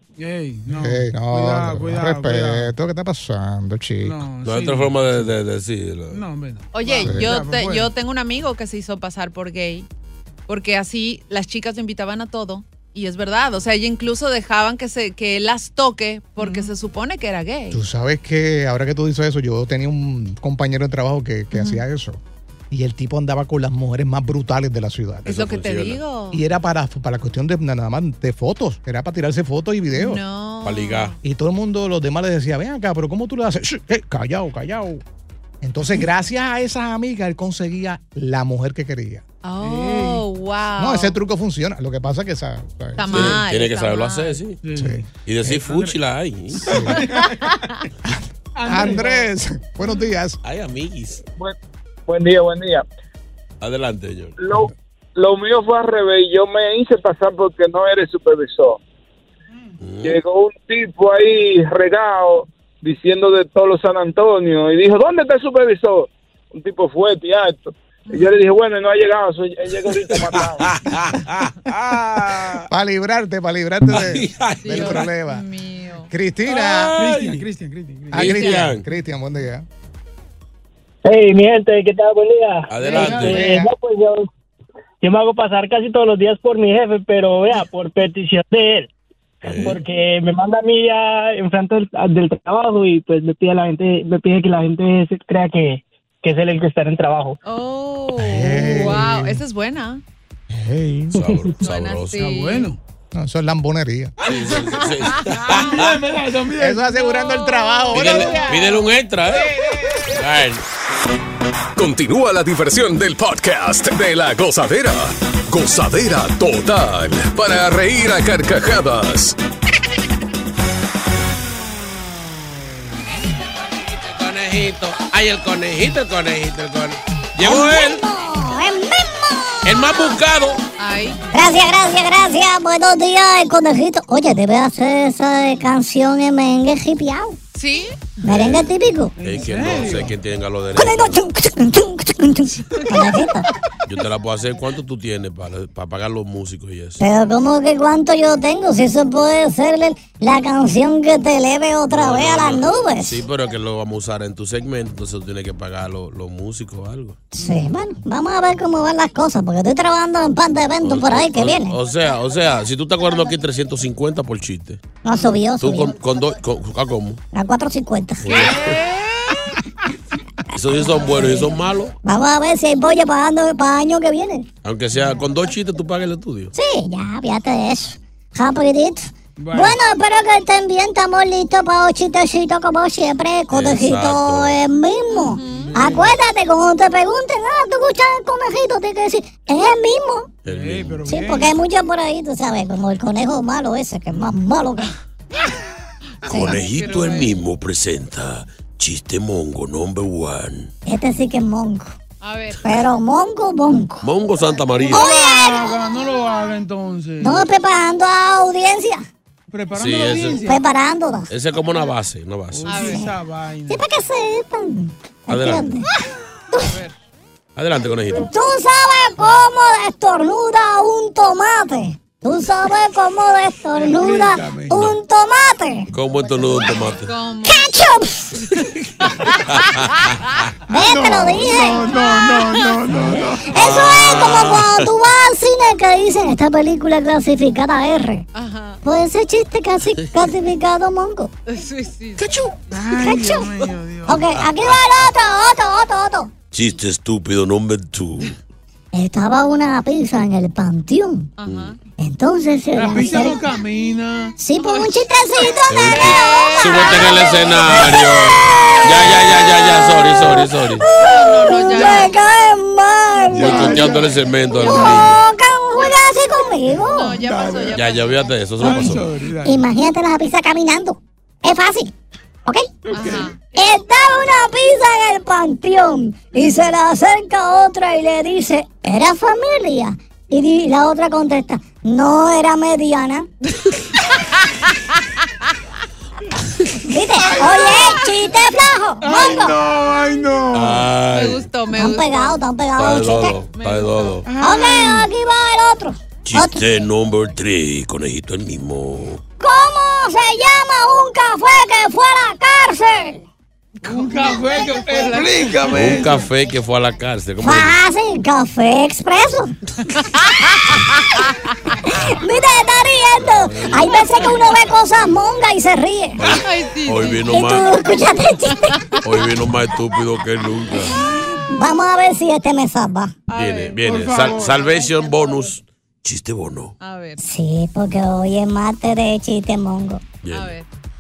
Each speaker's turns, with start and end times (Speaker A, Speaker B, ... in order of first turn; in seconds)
Speaker A: 0.2-2.7, 4.0-5.3, 6.1-7.9, 39.6-40.2, 44.6-46.0, 46.7-47.4, 48.5-49.3, 77.0-78.4, 82.9-83.5, 102.2-102.8, 104.3-104.5, 105.4-106.8, 139.2-140.2, 179.4-179.8, 185.6-186.2, 190.5-191.6, 204.9-207.5, 209.5-210.6, 212.5-213.8, 223.8-224.9, 230.7-233.6, 242.7-244.3, 252.8-254.4, 263.3-265.1, 267.2-267.7, 268.6-269.7, 272.9-273.2, 287.2-288.1, 289.0-290.9, 294.3-295.1, 303.9-306.2, 323.9-324.8
Speaker B: 0.7-4.3, 7.0-7.4, 17.7-25.3, 26.3-30.2, 31.2-35.0, 35.6-39.2, 40.8-43.4, 44.8-45.0, 46.6-47.1, 48.1-50.4, 72.7-75.5, 76.1-77.0, 78.1-79.7, 83.2-83.7, 98.2-99.4, 100.5-101.2, 103.2-104.1, 106.6-108.7, 109.3-110.1
Speaker C: 4.4-6.2, 25.3-26.0, 30.6-31.1, 43.1-44.6, 45.2-46.9, 50.4-51.2, 53.6-54.4, 59.8-60.2, 70.1-72.7, 73.9-75.1, 76.5-77.5, 78.1-78.8, 82.7-83.4, 89.4-89.8, 101.1-102.3, 104.2-106.0, 107.9-109.5, 110.1-110.6, 123.5-128.1, 129.6-130.6, 138.3-141.2, 143.8-147.0, 151.9-157.2, 160.8-164.8, 165.6-167.2, 168.2-168.8, 170.5-172.0, 174.6-176.5, 183.5-184.6, 190.4-191.1, 196.3-200.7, 204.0-205.1, 209.7-210.5, 211.3-212.9, 215.3-215.7, 217.6-218.3, 224.7-225.0, 225.9-227.1, 229.5-230.1, 233.5-234.9, 244.4-244.8, 246.5-248.3, 251.4-251.8, 255.7-260.9, 263.3-265.2, 267.7-269.1, 290.5-291.5, 292.8-294.3, 296.2-299.2, 305.7-307.8, 313.2-313.9, 316.2-317.7, 319.0-321.0, 323.3-326.8, 330.2-330.6
Speaker D: 6.7-9.9, 10.5-17.8, 21.5-21.8, 25.3-26.4, 29.9-31.2, 39.4-41.2, 43.0-44.4, 47.0-47.8, 68.1-68.4, 74.6-76.1, 78.2-78.7, 97.5-100.0, 101.6-102.7, 104.8-105.2, 106.9-108.8, 130.8-131.2, 137.6-138.2, 185.1-186.0, 196.2-197.4, 202.2-202.8, 212.7-213.1, 216.7-216.9, 226.8-227.7, 228.4-230.3, 231.8-233.1, 238.3-238.8, 241.5-242.3, 251.4-251.8, 254.6-257.6, 258.7-260.0, 261.0-262.1, 266.9-268.3, 272.9-273.7, 287.9-288.1, 291.1-292.4, 293.4-294.2, 303.8-305.7, 310.0-311.3, 316.2-317.4, 318.5-319.0, 323.3-323.9, 326.8-327.2, 330.3-330.7
Speaker E: 52.1-52.9, 54.4-58.8, 60.0-70.7
Speaker F: 81.0-84.3, 85.0-88.9, 89.5-97.4
Speaker G: 111.8-119.4
Speaker H: 127.4-129.8, 131.3-137.4, 138.3-139.1, 140.8-143.5, 147.0-153.2, 157.3-161.7, 165.0-165.9, 167.3-168.3, 172.0-174.5, 176.5-190.3, 191.1-194.9, 200.9-201.9, 202.6-204.1, 204.9-205.8, 207.2-209.1, 210.5-211.3, 213.7-215.9, 218.2-225.9, 227.4-228.4, 230.7-231.9, 233.5-238.3, 238.8-241.3, 242.9-243.5, 244.1-246.3, 248.9-251.3, 252.0-253.4, 254.4-256.6, 260.8-263.6, 264.6-267.2, 269.4-271.9, 273.6-283.3, 286.9-289.6, 291.7-293.3, 294.4-296.6, 299.4-303.2, 307.4-309.5, 311.9-316.2, 317.3-318.8, 321.5-323.1, 327.2-330.0